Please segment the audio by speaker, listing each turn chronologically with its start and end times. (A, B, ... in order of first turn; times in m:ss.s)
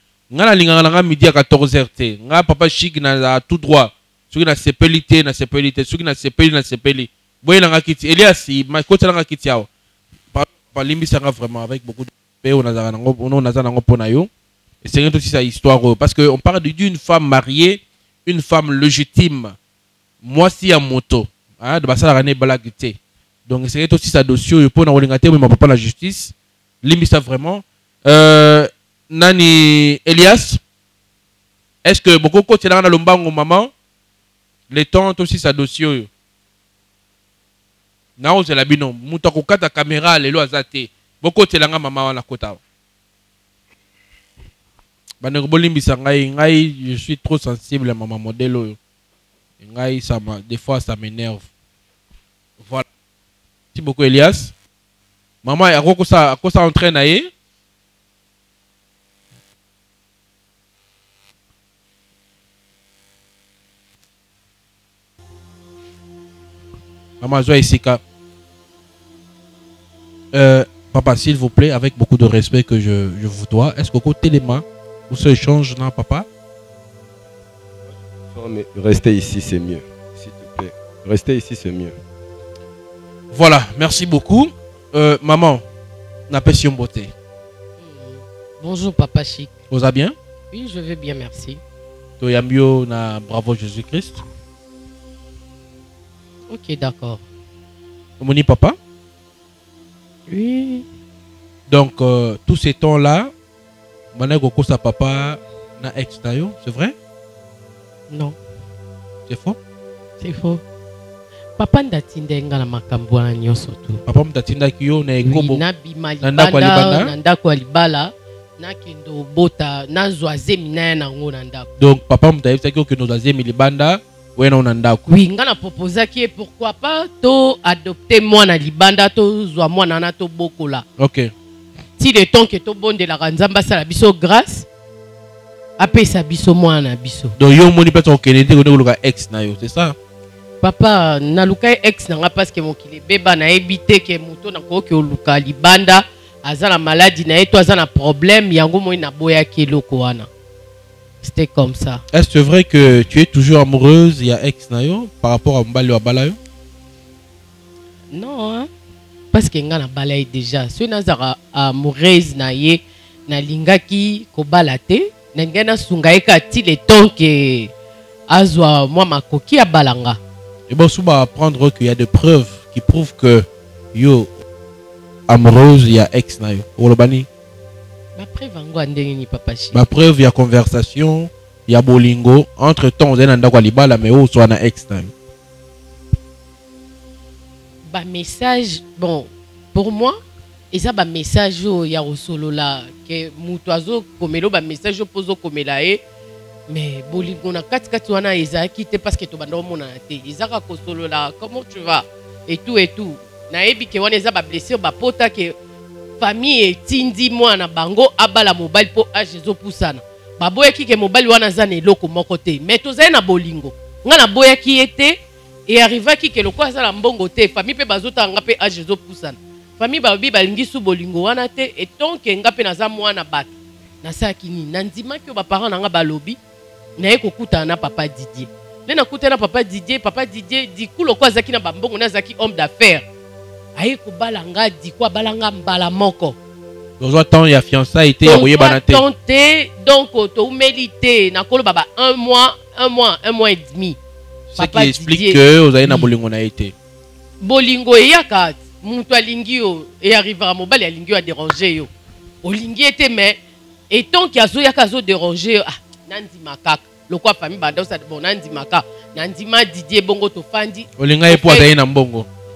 0:00.3-0:09.7 A
0:10.3-0:14.3 A
0:14.8-0:19.6 A
0:20.2-0:30.6 A
0:31.8-0:33.7 A
0:34.7-0:36.1 A
0:38.2-0:42.6 A
0:45.2-0:48.8 A
0:49.6-0:51.5 A
0:52.6-0:52.8 A
0:53.7-0:54.5 A
0:55.4-0:57.3 A
1:07.2-1:08.0 A
1:10.3-1:16.3 A
1:18.3-1:22.0 B
1:23.3-1:25.6 A
1:26.3-1:27.1 A
1:27.8-1:29.5 C
1:29.7-1:30.2 A
1:30.5-1:31.6 C
1:32.2-1:34.2 A
1:36.5-1:37.2 C
1:38.2-1:38.8 A
1:40.3-1:40.9 C
1:41.7-1:43.3 A
1:44.1-1:47.0 A
1:48.1-1:48.4 C
1:49.3-1:49.6 A
1:50.2-1:50.6 C
1:51.6-1:54.0 C
1:54.1-1:55.6 A
1:55.2-2:01.7 C
1:56.2-1:57.1 A
2:01.8-2:05.0 A
2:05.1-2:10.8 C
2:11.0-2:11.3 A
2:12.0-2:14.7 C
2:15.8-2:17.4 C
2:17.4-2:20.0 A
2:20.6-2:30.3 C
2:31.2-2:32.0 C
2:32.1-2:36.4 A
2:38.1-2:38.7 C
2:39.3-2:47.7 C
2:48.3-2:50.2 C
2:50.7-2:54.3 A
2:55.3-2:57.3 A
2:58.2-2:59.8 C
2:59.7-3:05.1 A
3:07.9-3:10.2 C
3:10.7-3:16.0 C
3:16.7-3:25.6 C
3:26.2-3:43.5 C
3:44.0-3:46.4 C
3:47.0-3:53.0 C
3:53.8-3:56.4 C
3:57.0-3:59.0 A
3:58.2-4:04.0 C
4:04.5-4:06.7 A
4:04.6-4:06.1 C
4:07.4-4:11.9 C
4:12.4-4:13.4 C
4:13.9-4:21.7 C
4:21.0-4:22.3 A